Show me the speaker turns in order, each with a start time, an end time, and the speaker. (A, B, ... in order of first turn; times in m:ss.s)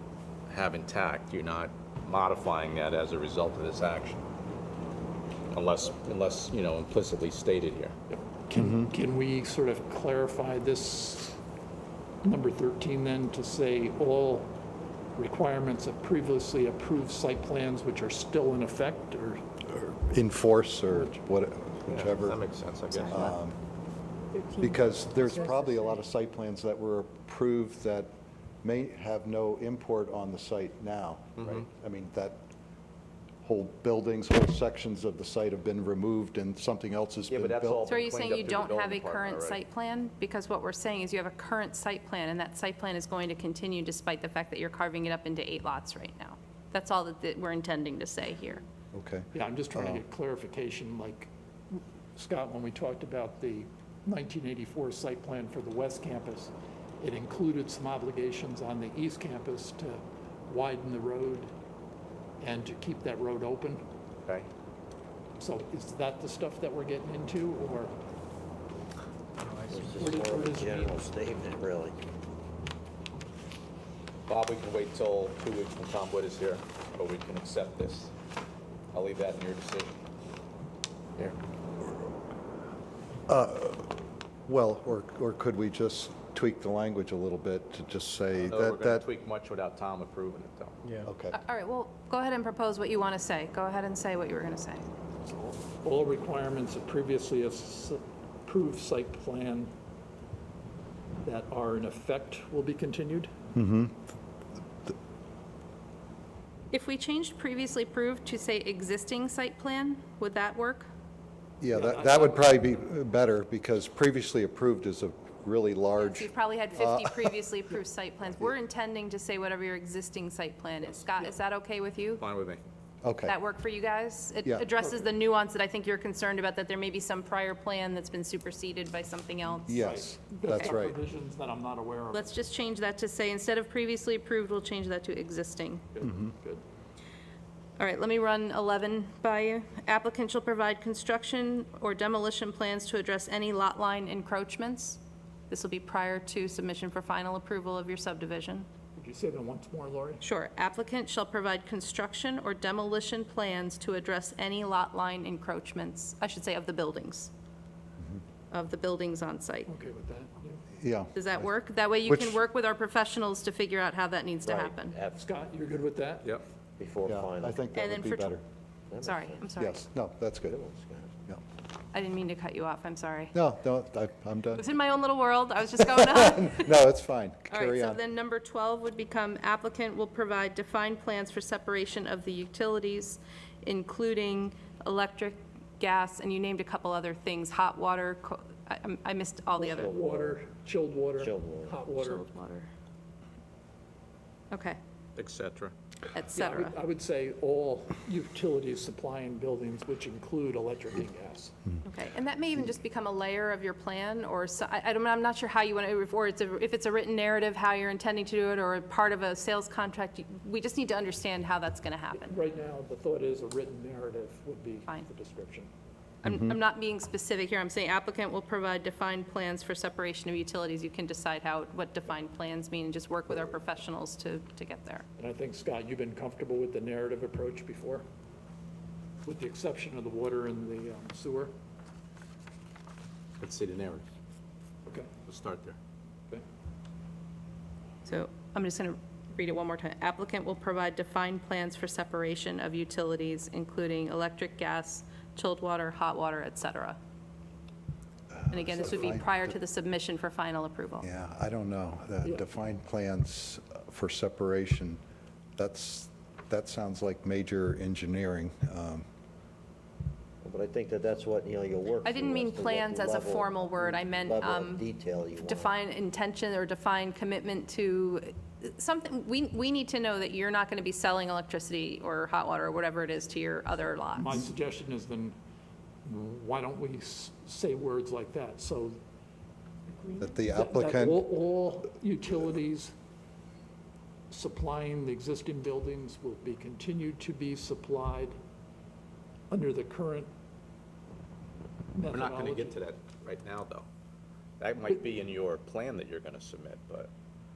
0:00.5-0:04.2 A
0:05.5-0:08.0 A
0:08.1-0:11.4 B
0:08.6-0:08.9 C
0:12.2-0:14.6 B
0:15.2-0:19.4 B
0:19.7-0:22.4 C
0:21.9-0:23.4 A
0:22.9-0:23.3 D
0:23.1-0:23.6 C
0:24.6-0:32.4 C
0:31.4-0:31.7 A
0:33.4-0:37.9 C
0:37.3-0:39.6 A
0:37.9-0:48.6 D
0:48.9-0:50.0 C
0:49.3-1:01.5 B
1:02.4-1:03.9 B
1:05.4-1:08.0 B
1:09.7-1:12.0 E
1:10.0-1:11.0 B
1:14.3-1:18.1 A
1:18.9-1:20.0 A
1:23.3-1:29.1 C
1:28.4-1:30.8 A
1:31.0-1:31.4 C
1:31.3-1:34.9 D
1:35.2-1:39.7 B
1:41.2-1:43.3 B
1:43.5-1:44.0 C
1:46.7-1:50.9 D
1:51.6-1:57.3 C
1:51.7-1:52.5 B
1:56.0-2:02.2 D
2:02.2-2:02.7 A
2:03.0-2:03.4 C
2:03.2-2:09.8 D
2:04.8-2:05.1 B
2:09.7-2:11.0 C
2:09.8-2:12.3 B
2:12.1-2:15.8 D
2:16.0-2:16.6 B
2:17.8-2:28.7 D
2:29.0-2:30.2 B
2:30.2-2:37.3 D
2:38.5-2:39.7 D
2:39.7-2:40.6 B
2:40.8-2:41.4 C
2:41.1-2:45.0 D
2:42.1-2:42.4 C
2:44.4-2:45.2 E
2:45.2-2:46.4 B
2:46.8-2:47.7 E
2:47.1-2:48.4 C
2:47.8-2:48.4 D
2:48.9-2:49.4 E
2:49.0-2:49.9 D
2:49.6-2:50.6 C
2:50.4-2:51.2 E
2:51.9-2:53.4 D
2:53.3-2:54.6 C
2:54.5-2:56.8 D
2:55.8-2:58.0 C
2:57.5-3:09.9 D
3:09.6-3:12.2 B
3:09.6-3:10.4 E
3:11.2-3:11.8 E
3:11.9-3:12.7 D
3:14.5-3:14.8 D
3:15.2-3:15.7 A
3:16.1-3:16.7 D
3:16.4-3:21.6 B
3:21.8-3:32.4 D
3:32.2-3:35.7 B
3:36.2-3:45.1 D
3:36.3-3:36.6 C
3:45.2-3:48.1 B
3:49.2-3:51.5 B
3:53.4-3:54.1 A
3:54.9-3:55.1 B
3:55.3-3:55.8 A
3:58.0-4:07.0 D
4:08.3-4:09.3 C
4:08.5-4:11.1 D
4:11.0-4:15.0 C
4:15.6-4:19.0 C
4:20.4-4:25.7 E
4:22.0-4:24.8 D
4:25.4-4:34.4 D
4:34.2-4:35.4 B
4:36.0-4:39.0 B
4:40.2-4:41.2 C
4:40.6-4:42.9 B
4:44.3-4:48.4 B
4:49.5-4:50.3 B
4:51.9-4:52.7 B
4:52.1-4:53.9 A
4:54.6-4:57.1 A